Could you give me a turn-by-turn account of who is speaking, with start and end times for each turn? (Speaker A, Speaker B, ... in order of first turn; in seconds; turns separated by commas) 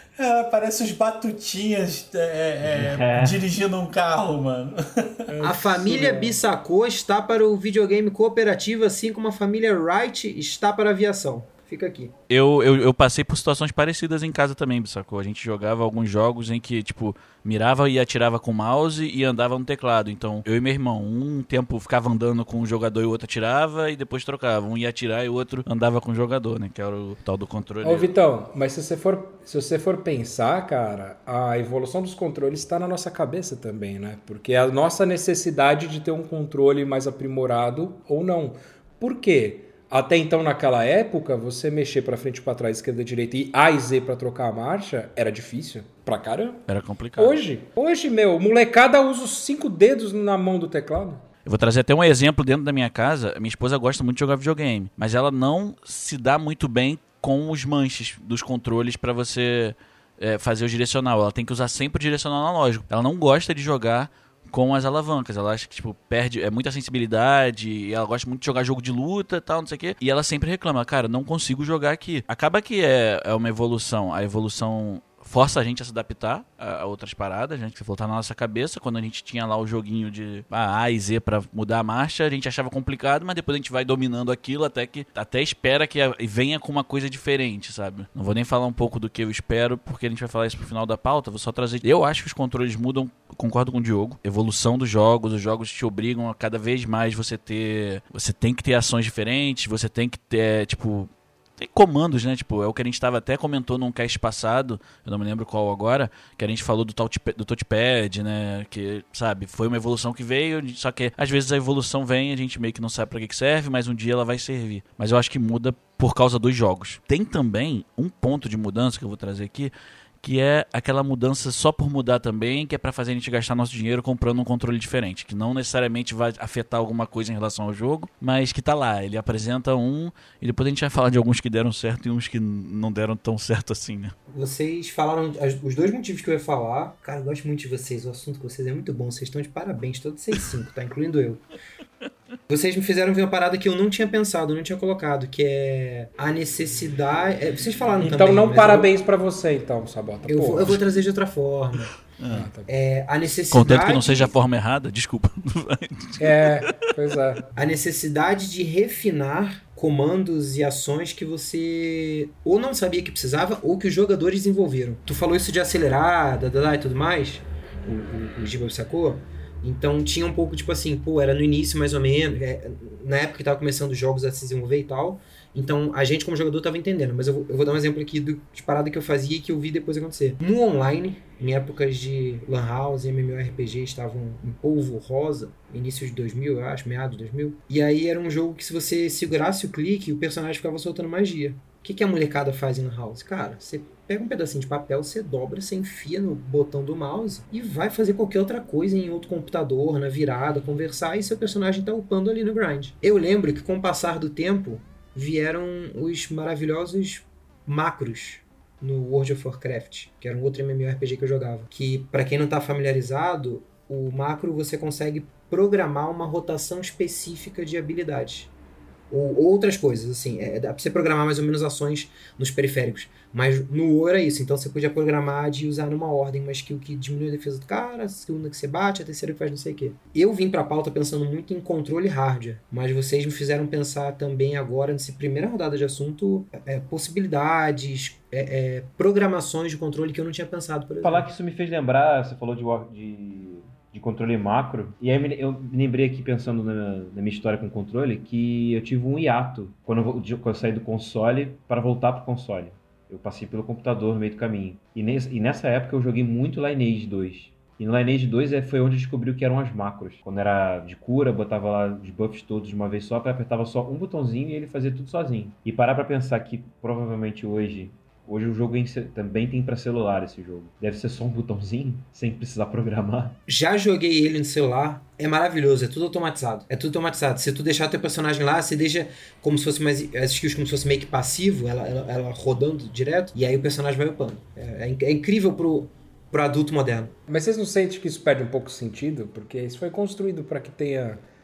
Speaker A: 0.1-5.3, Speaker B: 2.6-3.4, Speaker C: 5.3-6.4, Speaker D: 5.4-12.1, Speaker E: 12.3-28.1, Speaker C: 27.8-46.6, Speaker E: 46.7-47.4, Speaker C: 47.2-51.2, Speaker E: 51.5-134.1, Speaker D: 134.3-141.4, Speaker D: 142.5-148.9, Speaker C: 148.0-150.8, Speaker D: 150.3-151.9, Speaker E: 152.2-152.5, Speaker C: 152.3-152.7, Speaker D: 152.7-154.3, Speaker E: 153.5-156.5, Speaker C: 156.2-157.5, Speaker D: 157.6-218.5, Speaker D: 219.1-241.3, Speaker B: 241.0-273.4, Speaker D: 273.5-287.1, Speaker C: 287.3-291.2